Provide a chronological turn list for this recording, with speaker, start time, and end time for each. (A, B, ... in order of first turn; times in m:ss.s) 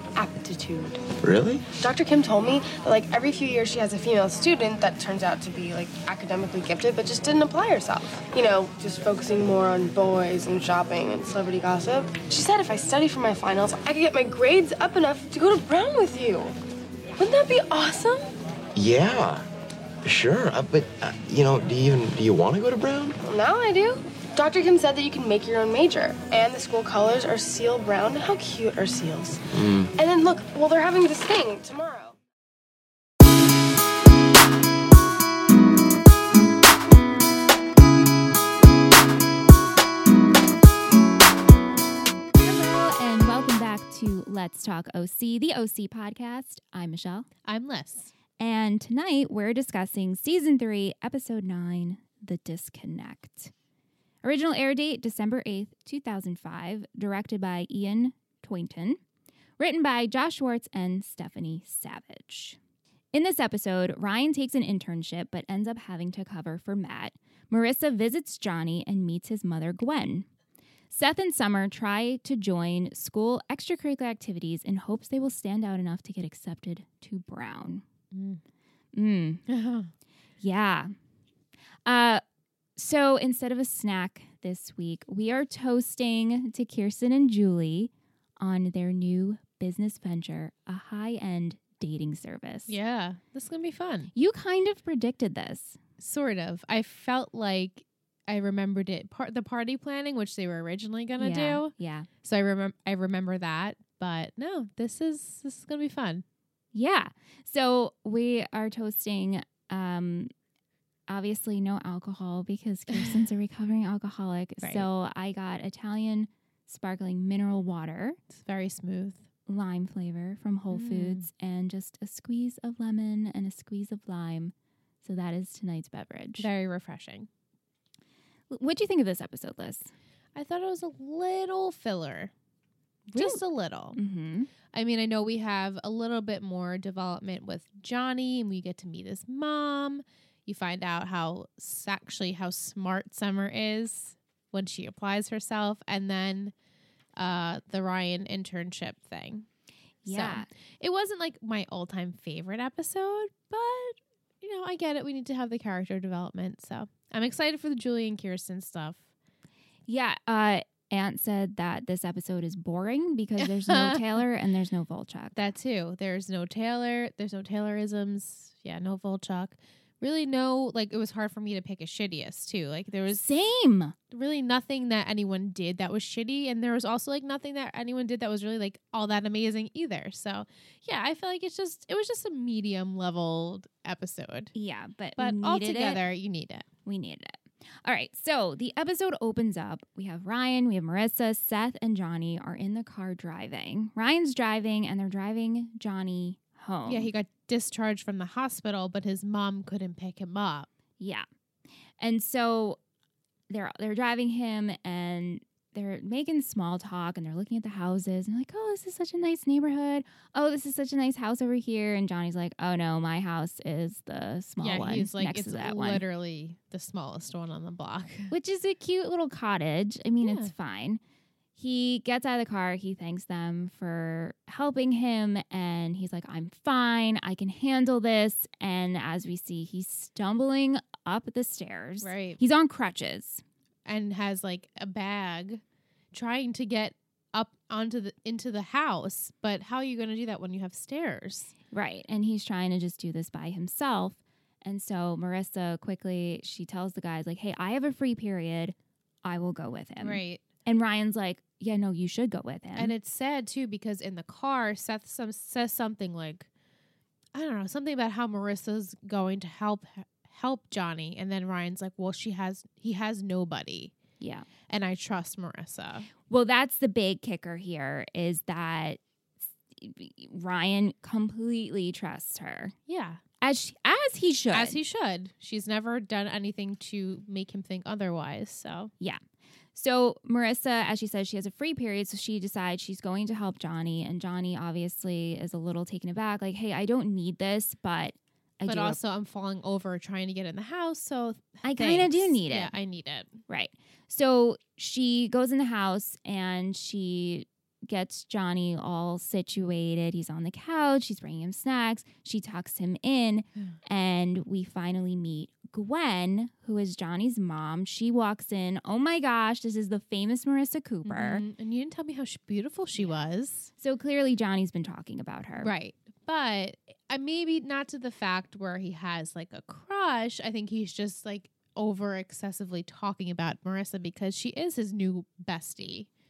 0:00.2-0:01.0 A
0:01.2-0:01.6 B
0:01.8-0:16.6 A
0:17.2-0:18.3 A
0:18.8-0:19.4 B
0:20.0-0:23.2 B
0:23.2-0:29.4 A
0:29.5-0:29.9 B
0:30.0-0:32.2 A
0:42.4-0:47.3 C
0:47.5-0:48.1 D
0:48.4-0:53.5 C
0:54.2-0:59.0 C
0:59.6-1:02.6 C
1:03.1-1:10.3 C
1:10.9-1:17.8 C
1:18.1-1:18.4 D
1:18.9-1:19.4 C
1:19.5-1:19.9 D
1:20.4-1:20.9 C
1:21.9-1:22.2 C
1:22.8-1:32.8 C
1:32.7-1:34.1 D
1:34.1-1:35.8 C
1:36.0-1:41.7 D
1:41.2-1:42.1 C
1:42.2-1:46.2 D
1:46.7-1:50.3 C
1:51.1-1:58.2 C
1:54.6-1:54.9 D
1:58.3-1:59.2 D
1:59.5-2:06.5 C
2:00.7-2:01.3 D
2:06.4-2:07.3 D
2:08.5-2:09.9 C
2:10.4-2:12.3 D
2:13.1-2:13.4 C
2:13.2-2:14.0 D
2:14.0-2:14.5 C
2:14.7-2:26.5 D
2:27.2-2:29.5 D
2:30.0-2:30.5 C
2:30.0-2:39.0 D
2:39.9-2:45.4 C
2:43.4-2:44.2 D
2:45.4-2:53.2 D
2:53.1-2:54.0 C
2:54.1-3:04.5 D
3:04.5-3:06.0 C
3:05.2-3:06.7 D
3:06.9-3:17.1 C
3:16.9-3:20.7 D
3:21.0-3:21.3 C
3:22.0-3:22.8 C
3:23.5-3:36.0 C
3:34.6-3:38.3 D
3:38.3-3:41.0 C
3:40.2-3:40.5 D
3:41.6-3:53.4 C
3:52.0-3:52.4 D
3:53.9-4:01.5 D
4:01.7-4:12.9 C
4:10.0-4:10.4 D
4:12.8-4:16.5 D
4:17.3-4:23.9 D
4:24.2-4:24.5 C
4:24.7-4:26.1 D
4:26.3-4:29.0 C
4:29.8-4:32.8 C
4:32.9-4:33.2 D
4:33.4-4:34.8 C
4:34.5-4:38.9 D
4:39.8-4:49.0 C
4:48.7-4:53.4 D
4:51.6-4:52.7 C
4:53.5-5:11.4 C
5:11.0-5:13.7 D
5:13.8-5:15.7 C
5:15.6-5:26.1 D